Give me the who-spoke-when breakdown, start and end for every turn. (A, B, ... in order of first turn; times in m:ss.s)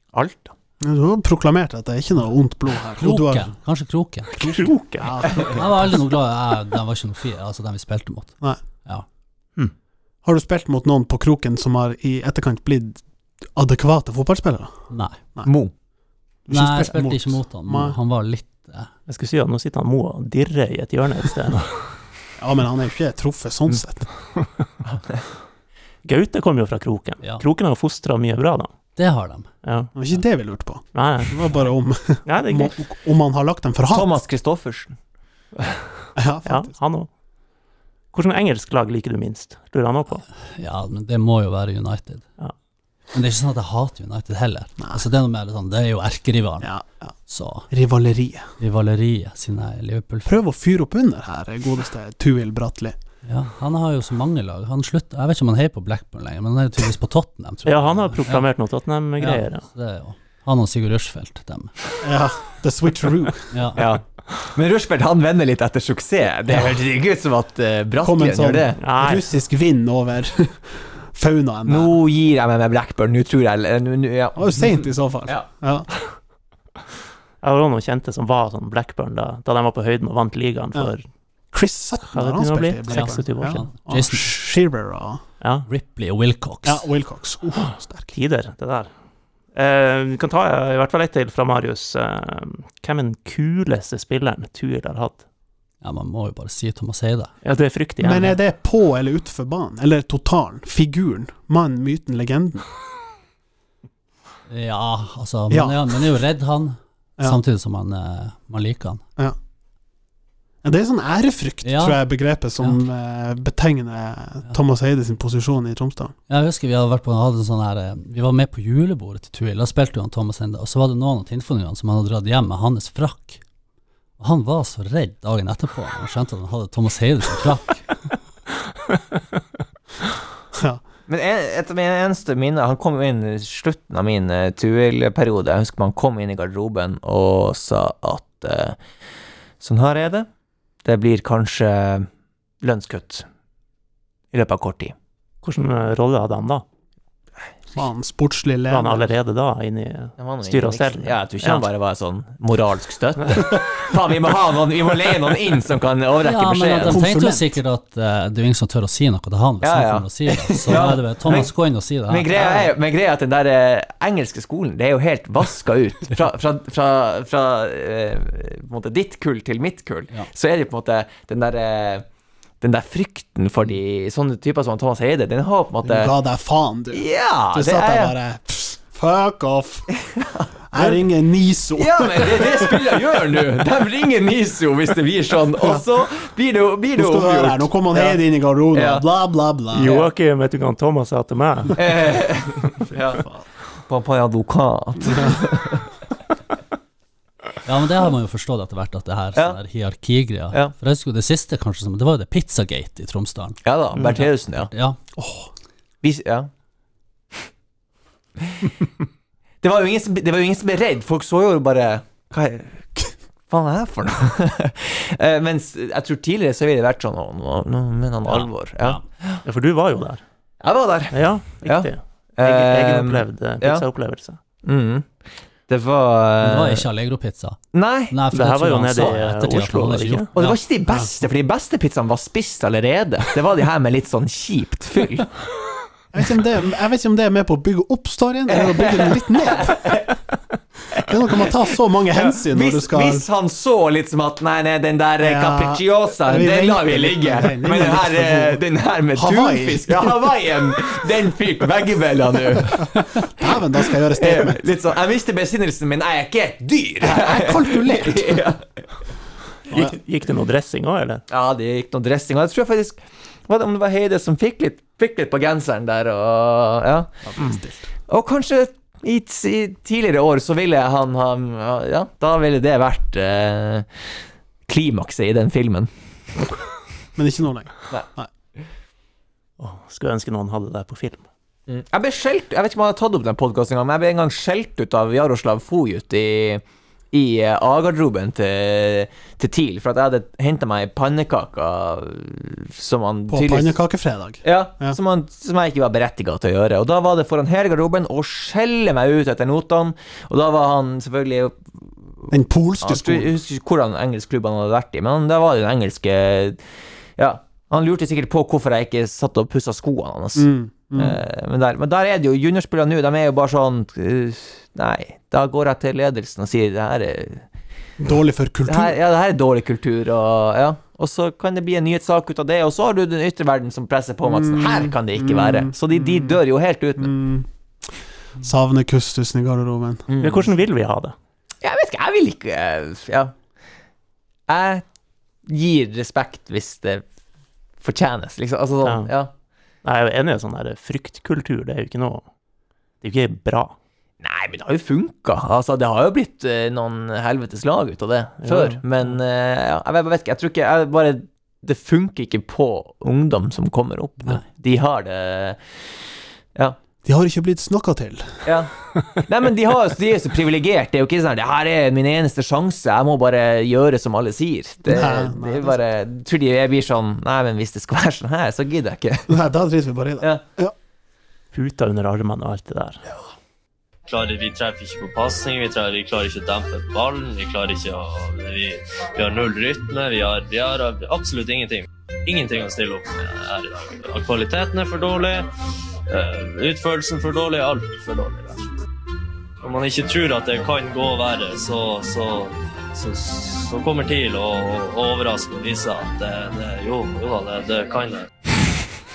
0:00.1-0:00.5 A
0:00.8-0:03.6 B
0:03.0-0:04.6 C
0:04.4-0:06.0 B
0:04.4-0:05.5 A
0:05.5-0:09.0 C
0:10.2-0:13.0 B
0:13.5-0:14.7 B
0:14.9-0:15.2 C
0:15.4-0:15.7 D
0:16.5-0:18.0 B
0:16.5-0:18.9 C
0:19.1-0:21.9 A
0:22.4-0:24.1 B
0:26.0-0:28.7 A
0:29.0-0:29.5 C
0:29.6-0:29.9 A
0:29.9-0:34.2 B
0:30.9-0:31.5 A
0:32.2-0:32.7 A
0:33.9-0:34.9 D
0:36.2-0:36.7 B
0:36.4-0:37.1 A
0:38.1-0:40.2 A
0:40.6-0:42.2 C
0:43.1-0:46.7 C
0:46.6-0:47.1 B
0:47.3-0:47.7 C
0:47.7-0:48.5 B
0:48.6-0:50.4 C
0:50.2-0:53.0 B
0:53.2-0:58.4 C
0:57.6-0:59.6 A
0:59.2-1:01.7 C
1:02.0-1:03.5 B
1:03.5-1:03.8 C
1:03.8-1:08.8 D
1:08.0-1:11.9 B
1:08.8-1:09.2 A
1:11.7-1:14.4 D
1:14.4-1:15.9 B
1:17.4-1:21.0 A
1:21.5-1:25.2 B
1:22.1-1:23.6 A
1:22.9-1:24.3 C
1:25.4-1:25.6 A
1:25.7-1:26.8 C
1:26.6-1:28.1 B
1:28.1-1:28.9 A
1:29.5-1:35.2 A
1:35.8-1:37.3 C
1:37.4-1:38.4 A
1:38.0-1:42.6 B
1:44.5-1:49.0 C
1:45.5-1:46.0 B
1:50.6-1:56.1 B
1:51.6-1:52.0 C
1:56.3-2:03.4 C
2:04.2-2:07.8 C
2:10.5-2:10.8 B
2:11.1-2:18.8 D
2:19.6-2:20.3 D
2:20.8-2:22.1 D
2:22.6-2:23.2 D
2:24.3-2:24.9 D
2:25.4-2:26.6 A
2:27.7-2:29.1 B
2:28.7-2:31.6 A
2:30.2-2:37.0 D
2:36.2-2:42.4 C
2:36.8-2:37.5 B
2:39.6-2:41.5 D
2:42.1-2:52.0 D
2:52.6-2:56.1 D
2:55.8-2:59.9 B
2:56.9-2:58.1 D
3:00.1-3:01.0 D
3:00.7-3:03.1 B
3:01.8-3:08.2 D
3:05.6-3:05.8 B
3:07.0-3:09.9 B
3:08.7-3:09.0 D
3:09.7-3:11.9 A
3:11.8-3:13.2 D
3:13.0-3:13.4 B
3:13.9-3:15.9 D
3:15.0-3:15.4 B
3:17.6-3:23.6 C
3:23.6-3:24.7 D
3:24.0-3:24.2 A
3:24.7-3:25.0 C
3:25.2-3:25.5 B
3:26.0-3:26.5 D
3:29.6-3:39.4 D
3:39.4-3:40.2 A
3:40.6-3:43.8 D
3:41.1-3:44.4 A
3:44.6-3:45.1 D
3:45.7-3:46.8 D
3:46.4-3:47.6 C
3:47.7-3:48.2 D
3:48.1-3:50.5 C
3:48.3-3:50.3 A
3:50.3-3:55.3 D
3:56.1-4:00.0 B
3:58.5-4:00.1 D
4:00.9-4:03.2 B
4:02.1-4:13.5 D
4:05.2-4:08.6 B
4:09.1-4:10.3 B
4:13.2-4:14.6 B
4:14.2-4:18.7 D
4:17.0-4:18.5 B
4:19.7-4:21.2 A
4:21.3-4:27.1 D
4:27.2-4:27.9 B
4:28.1-4:33.9 D
4:34.7-4:35.9 D
4:37.2-4:38.3 B
4:39.6-4:41.2 A
4:41.7-4:53.7 D
4:53.3-4:55.0 B
4:54.4-5:02.3 D
5:02.3-5:03.3 B
5:02.8-5:06.6 D
5:07.2-5:17.4 D
5:10.4-5:11.2 B
5:18.0-5:19.0 B
5:18.7-5:27.1 D
5:24.2-5:26.4 B
5:27.0-5:27.5 B
5:28.4-5:30.0 B
5:30.1-5:30.5 D
5:30.2-5:31.1 A
5:31.6-5:33.3 D
5:34.5-5:34.8 D
5:35.5-5:37.0 D
5:37.8-5:39.3 D
5:38.8-5:39.1 A
5:39.8-5:42.2 A
5:43.0-5:43.7 A
5:44.2-5:55.6 D
5:48.4-5:49.2 A
5:57.0-5:58.4 B
5:58.4-6:09.3 D
6:04.8-6:05.8 B
6:09.3-6:10.7 B
6:11.5-6:13.0 A
6:14.1-6:25.5 E
6:26.1-6:28.6 E
6:29.6-6:38.3 E